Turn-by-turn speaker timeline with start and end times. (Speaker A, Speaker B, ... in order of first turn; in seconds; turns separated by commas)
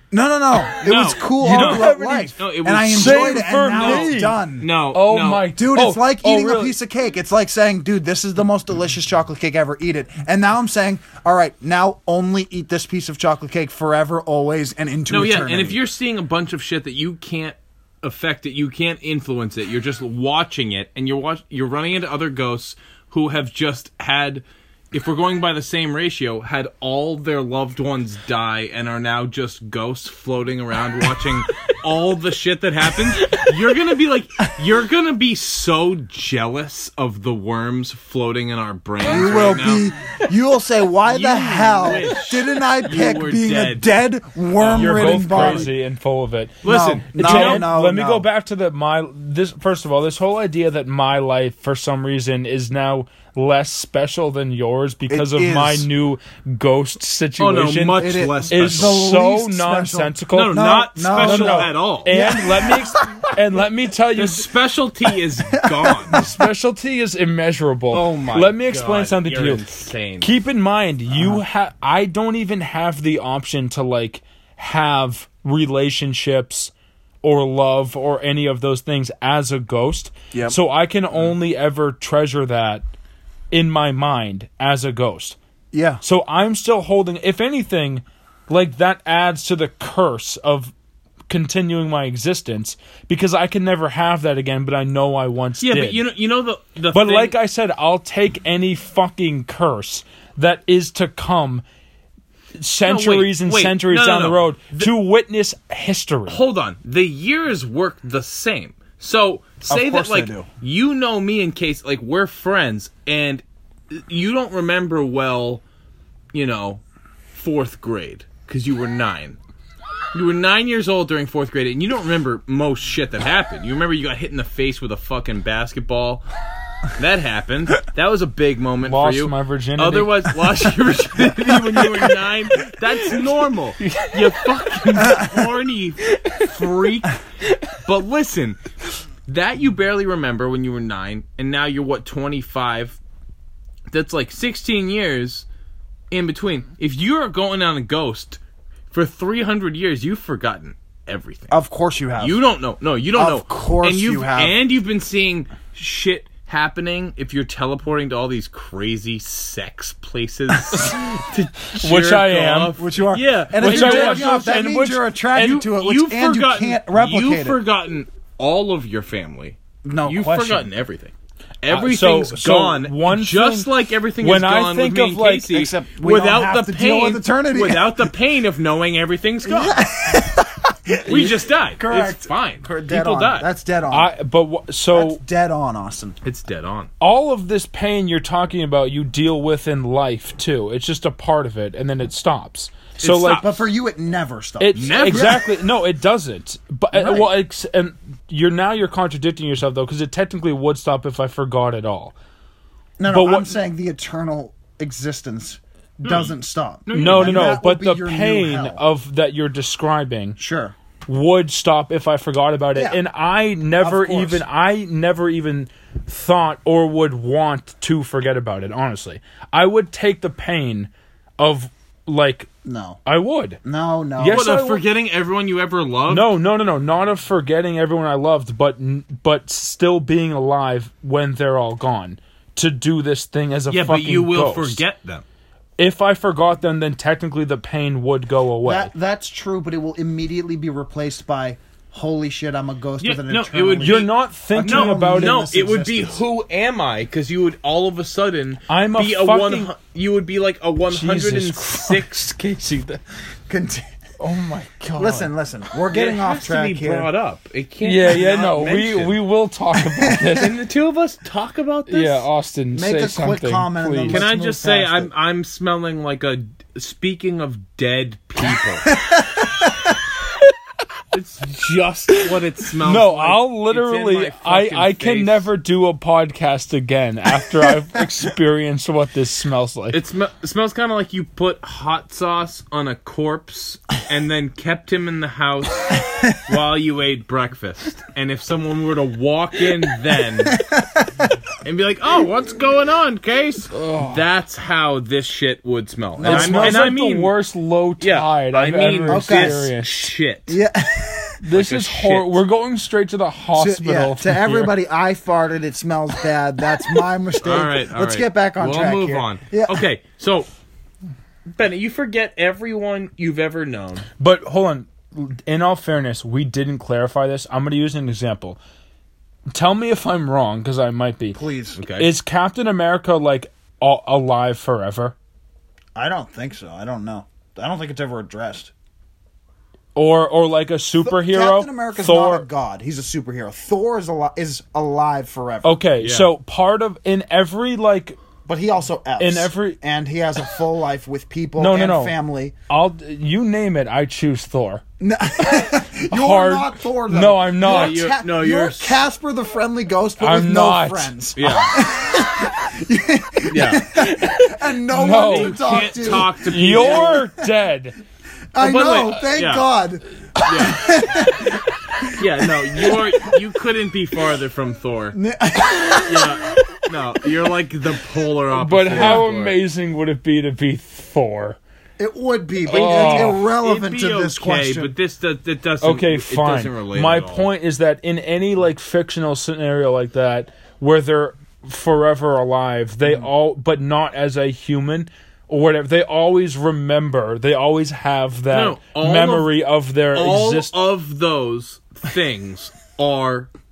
Speaker A: 0.1-4.7, Speaker B: 0.7-5.5, Speaker C: 1.4-2.3, Speaker C: 2.9-4.4, Speaker C: 4.9-6.7, Speaker A: 5.5-15.8, Speaker B: 15.1-39.9, Speaker A: 39.0-45.7, Speaker B: 41.0-43.9, Speaker B: 44.6-45.7, Speaker C: 44.7-64.5, Speaker B: 46.6-47.7, Speaker A: 46.6-48.2, Speaker A: 55.1-55.9, Speaker B: 57.4-59.0, Speaker A: 58.0-63.2, Speaker B: 60.3-62.1, Speaker B: 64.2-66.2, Speaker A: 65.5-66.3, Speaker C: 66.1-69.6, Speaker B: 67.9-70.3, Speaker C: 70.2-76.7, Speaker A: 71.1-71.4, Speaker C: 77.2-82.8, Speaker C: 83.5-85.4, Speaker A: 85.7-86.0, Speaker C: 86.0-90.7, Speaker C: 91.3-96.0, Speaker B: 95.6-97.3, Speaker C: 96.9-101.6, Speaker C: 102.6-106.4, Speaker B: 102.8-104.9, Speaker B: 106.3-115.6, Speaker A: 109.7-110.5, Speaker B: 116.3-116.8, Speaker B: 117.3-119.4, Speaker B: 120.1-126.2, Speaker B: 126.9-137.2, Speaker C: 128.8-130.3, Speaker C: 133.8-134.7, Speaker C: 136.2-136.5, Speaker B: 137.8-138.6, Speaker B: 139.3-143.0, Speaker B: 143.9-145.4, Speaker B: 146.1-148.4, Speaker B: 148.9-151.6, Speaker A: 151.5-152.4, Speaker B: 152.2-164.3, Speaker A: 153.1-154.6, Speaker C: 160.7-161.0, Speaker C: 161.7-162.7, Speaker A: 162.8-167.6, Speaker C: 163.6-165.5, Speaker B: 165.3-179.8, Speaker A: 169.8-170.7, Speaker C: 171.7-175.6, Speaker A: 175.5-178.1, Speaker A: 179.4-184.1, Speaker B: 181.1-183.5, Speaker C: 183.9-185.2, Speaker A: 184.9-186.2, Speaker B: 186.2-186.9, Speaker C: 187.0-193.5, Speaker A: 193.0-195.4, Speaker B: 193.0-193.4, Speaker C: 194.6-202.1, Speaker B: 194.7-195.4, Speaker A: 196.9-197.3, Speaker A: 203.0-208.8, Speaker C: 203.1-203.5, Speaker B: 206.0-206.3, Speaker B: 206.8-207.6, Speaker C: 206.9-210.4, Speaker A: 210.4-210.7, Speaker C: 211.1-222.5, Speaker A: 212.7-213.0, Speaker A: 213.8-214.4, Speaker A: 222.6-223.0, Speaker C: 223.0-223.6, Speaker A: 223.6-224.4, Speaker C: 224.2-224.8, Speaker B: 224.3-226.3, Speaker C: 226.1-234.8, Speaker B: 233.7-235.2, Speaker C: 235.8-238.9, Speaker A: 238.6-246.2, Speaker B: 243.0-253.0, Speaker C: 243.8-245.4, Speaker C: 248.7-249.7, Speaker C: 250.9-252.2, Speaker A: 253.5-253.9, Speaker C: 254.2-255.3, Speaker A: 255.0-257.1, Speaker B: 255.9-259.2, Speaker C: 257.8-260.5, Speaker B: 260.1-262.3, Speaker C: 261.9-264.3, Speaker A: 262.7-265.1, Speaker B: 264.1-268.9, Speaker A: 268.9-269.9, Speaker B: 271.1-275.5, Speaker C: 272.8-280.0, Speaker B: 279.9-290.6, Speaker A: 285.9-286.4, Speaker A: 290.4-291.3, Speaker B: 291.6-297.3, Speaker C: 293.7-294.2, Speaker A: 296.2-296.9, Speaker C: 296.2-300.1, Speaker B: 298.0-300.6, Speaker A: 299.1-299.6, Speaker A: 300.5-301.4, Speaker C: 301.4-304.7, Speaker B: 301.5-302.4, Speaker A: 303.5-309.8, Speaker B: 307.4-310.5, Speaker B: 311.5-314.1, Speaker C: 314.2-318.6, Speaker C: 319.5-321.4, Speaker A: 321.3-321.8, Speaker B: 321.8-322.1, Speaker C: 322.0-325.1, Speaker A: 325.9-328.7, Speaker C: 329.9-332.4, Speaker A: 331.0-335.8, Speaker C: 335.6-338.2, Speaker B: 336.0-336.3, Speaker A: 338.5-342.5, Speaker C: 339.2-339.8, Speaker C: 341.6-342.1, Speaker C: 342.7-344.8, Speaker A: 345.0-357.4, Speaker C: 345.4-348.0, Speaker B: 347.6-349.0, Speaker C: 350.2-351.1, Speaker B: 351.4-351.8, Speaker B: 353.5-353.9, Speaker C: 353.9-358.0, Speaker B: 355.3-357.2, Speaker A: 358.5-360.0, Speaker B: 358.6-359.7, Speaker B: 360.4-360.9, Speaker A: 360.6-363.3, Speaker B: 362.2-365.1, Speaker A: 365.1-366.6, Speaker B: 366.0-369.6, Speaker C: 368.5-371.6, Speaker A: 368.9-369.2, Speaker A: 372.0-374.9, Speaker C: 372.7-373.4, Speaker B: 372.7-377.5, Speaker C: 375.8-390.7, Speaker B: 388.5-389.5, Speaker B: 390.1-393.5